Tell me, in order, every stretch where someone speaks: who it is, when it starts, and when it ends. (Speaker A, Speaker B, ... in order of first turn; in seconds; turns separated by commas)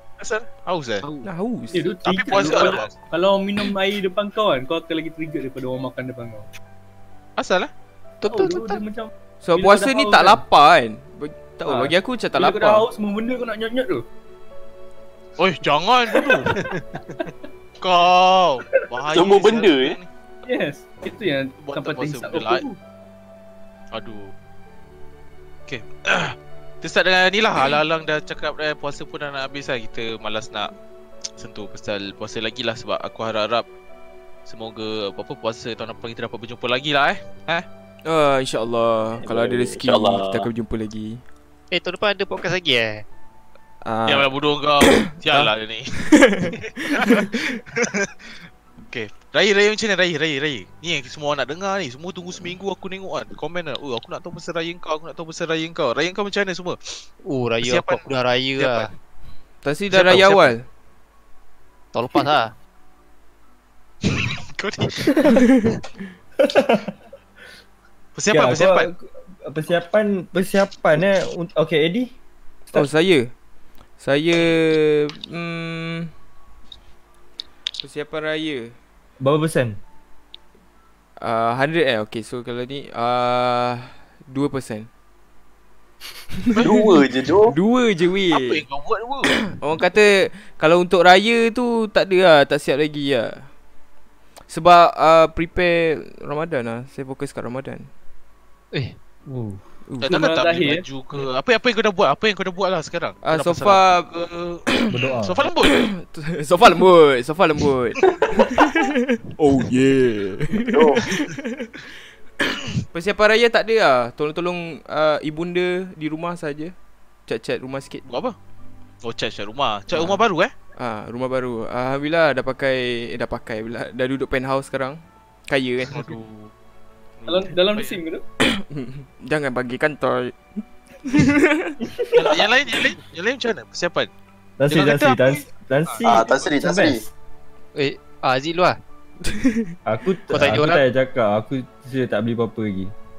Speaker A: 0.2-1.0, Speaker B: 1.0-1.3, Speaker C: 1.2-1.9, Speaker D: 1.7-6.5, Speaker A: 2.0-2.9, Speaker A: 7.4-7.7, Speaker B: 8.2-8.8, Speaker D: 8.3-10.4, Speaker C: 9.4-12.8, Speaker D: 11.7-14.0, Speaker A: 15.4-16.6, Speaker A: 17.8-20.1, Speaker E: 19.1-20.0, Speaker D: 20.4-22.8, Speaker A: 21.6-22.6, Speaker A: 23.9-24.3, Speaker A: 25.7-30.7, Speaker A: 31.4-33.6, Speaker A: 34.5-37.6, Speaker C: 38.0-41.2, Speaker E: 39.2-40.5, Speaker B: 41.7-43.0, Speaker C: 43.8-44.3, Speaker A: 44.1-45.9, Speaker C: 44.9-45.5, Speaker C: 46.0-47.5, Speaker A: 46.9-48.1, Speaker A: 48.9-57.0, Speaker B: 57.2-58.9, Speaker A: 57.6-58.0, Speaker A: 58.6-58.9, Speaker C: 59.6-60.6, Speaker A: 59.9-60.5, Speaker B: 61.9-62.5, Speaker A: 64.0-65.2, Speaker C: 65.3-65.8, Speaker F: 66.4-66.9, Speaker A: 68.1-68.9, Speaker F: 68.3-72.1, Speaker C: 72.7-73.3, Speaker C: 74.0-76.1, Speaker C: 77.8-78.7, Speaker F: 79.2-79.8, Speaker C: 81.2-84.9, Speaker C: 86.4-87.0, Speaker E: 86.6-87.5, Speaker C: 87.5-88.6, Speaker A: 88.3-89.3, Speaker C: 89.4-93.5, Speaker C: 94.5-97.9, Speaker F: 99.3-99.6, Speaker A: 100.0-104.7, Speaker D: 100.0-100.8, Speaker C: 103.2-104.1, Speaker F: 104.9-105.4, Speaker A: 105.2-105.8, Speaker C: 105.6-111.8, Speaker E: 110.5-111.1, Speaker C: 112.9-116.7, Speaker C: 117.3-118.0, Speaker A: 118.1-118.3, Speaker A: 119.0-120.5, Speaker C: 119.9-120.2, Speaker C: 120.8-126.1, Speaker A: 125.9-126.5, Speaker A: 127.2-128.0, Speaker D: 127.3-128.2, Speaker C: 128.4-131.8, Speaker A: 132.1-134.1, Speaker F: 134.6-137.0, Speaker A: 134.7-135.4, Speaker E: 136.0-137.0, Speaker B: 137.7-138.8, Speaker C: 139.3-139.7, Speaker F: 139.8-142.9, Speaker B: 140.3-140.8